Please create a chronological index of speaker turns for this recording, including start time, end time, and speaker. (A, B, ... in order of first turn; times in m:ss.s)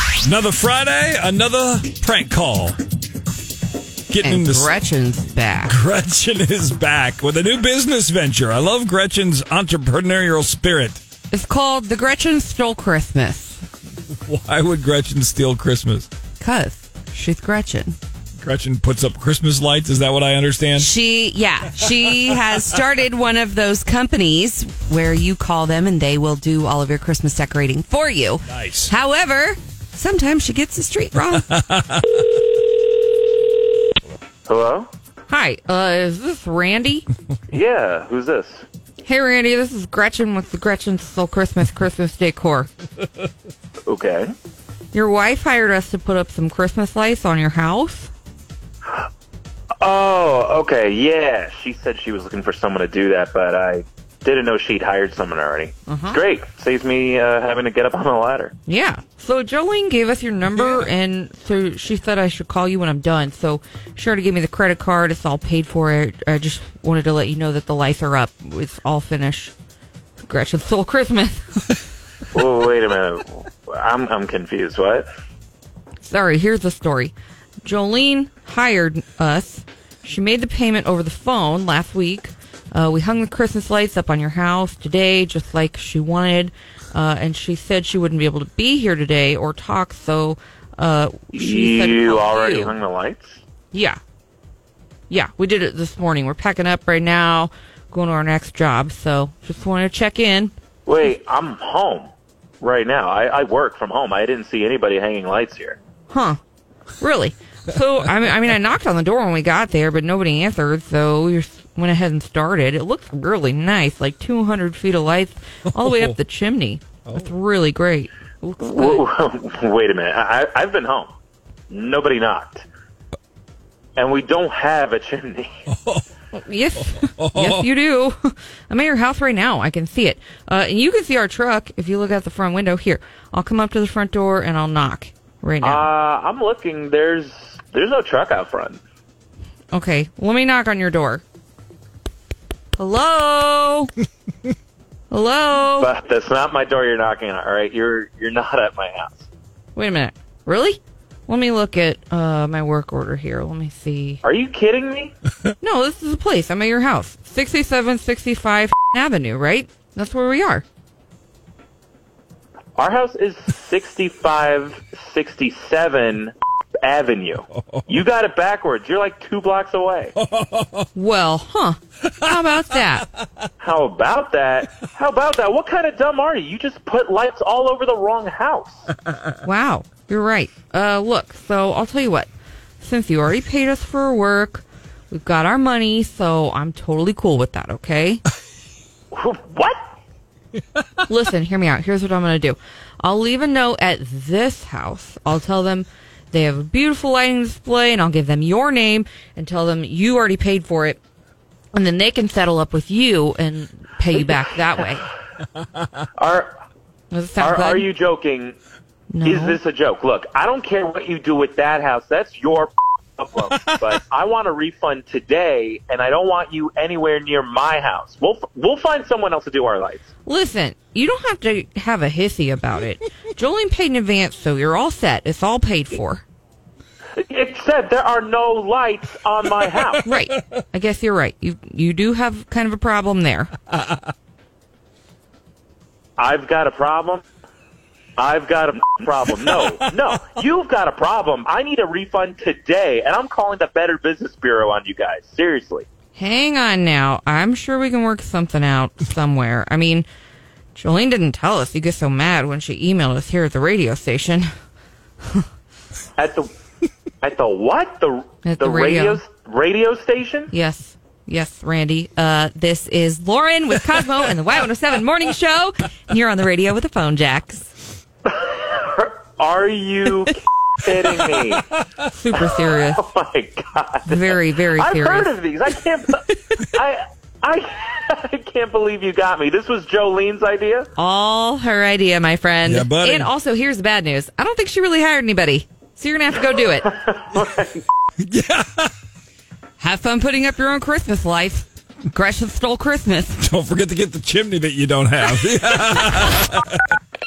0:00.2-0:02.8 A
0:04.1-0:04.7 A
0:04.2-0:05.8 B
0:05.7-0:11.0 A
0:11.3-0:13.6 B
0:14.3-0:16.1 A
0:16.4-0:18.0 B
0:18.4-0:20.9 A
0:20.8-0:31.5 B
0:28.5-0:28.9 A
0:31.5-0:32.0 A
0:34.5-0:34.9 C
0:35.3-0:37.0 B
0:37.5-0:38.6 C
0:39.0-0:42.7 B
0:43.9-0:44.3 C
0:44.9-0:48.1 B
0:49.8-0:58.5 C
0:55.9-0:56.2 B
0:58.6-1:09.5 B
1:10.2-1:11.4 B
1:12.3-1:15.1 C
1:16.0-1:32.8 B
1:31.3-1:33.4 C
1:33.7-1:34.0 B
1:35.1-1:40.5 B
1:40.8-1:45.8 C
1:46.1-1:46.4 B
1:47.0-1:59.0 B
1:55.7-1:56.1 A
1:58.6-2:01.1 C
2:01.7-2:02.6 C
2:04.0-2:05.5 C
2:05.7-2:06.0 A
2:06.3-2:15.9 B
2:07.0-2:07.7 A
2:15.6-2:18.8 C
2:19.7-2:21.2 B
2:22.8-2:23.9 B
2:25.1-2:25.9 B
2:25.8-2:29.3 C
2:29.7-2:34.2 B
2:34.2-2:35.1 C
2:35.6-2:40.6 B
2:42.8-2:50.1 C
2:50.2-2:50.9 A
2:50.9-2:53.1 B
2:53.6-2:58.9 C
2:59.4-3:02.3 B
3:02.8-3:08.2 B
3:09.1-3:09.8 C
3:11.0-3:21.0 B
3:21.7-3:25.1 B
3:26.2-3:26.5 C
3:27.1-3:27.9 B
3:27.4-3:28.6 C
3:29.1-3:29.6 B
3:29.2-3:40.1 C
3:40.2-3:46.2 B
3:47.2-3:50.0 C
3:50.0-3:53.5 B
3:56.2-3:57.2 C
3:58.2-4:05.8 C
4:06.1-4:10.1 B
4:10.7-4:14.5 B
4:16.2-4:16.5 C
4:17.2-4:20.5 C
4:18.4-4:19.2 B
4:20.5-4:27.7 B
4:28.2-4:31.6 C
4:32.0-4:33.1 B
4:32.9-4:40.9 C
4:34.1-4:35.3 B
4:41.0-4:46.9 B
4:42.6-4:43.3 A
4:46.9-4:47.8 C
4:48.2-4:48.9 A
4:49.8-4:53.4 B
4:53.4-4:56.8 A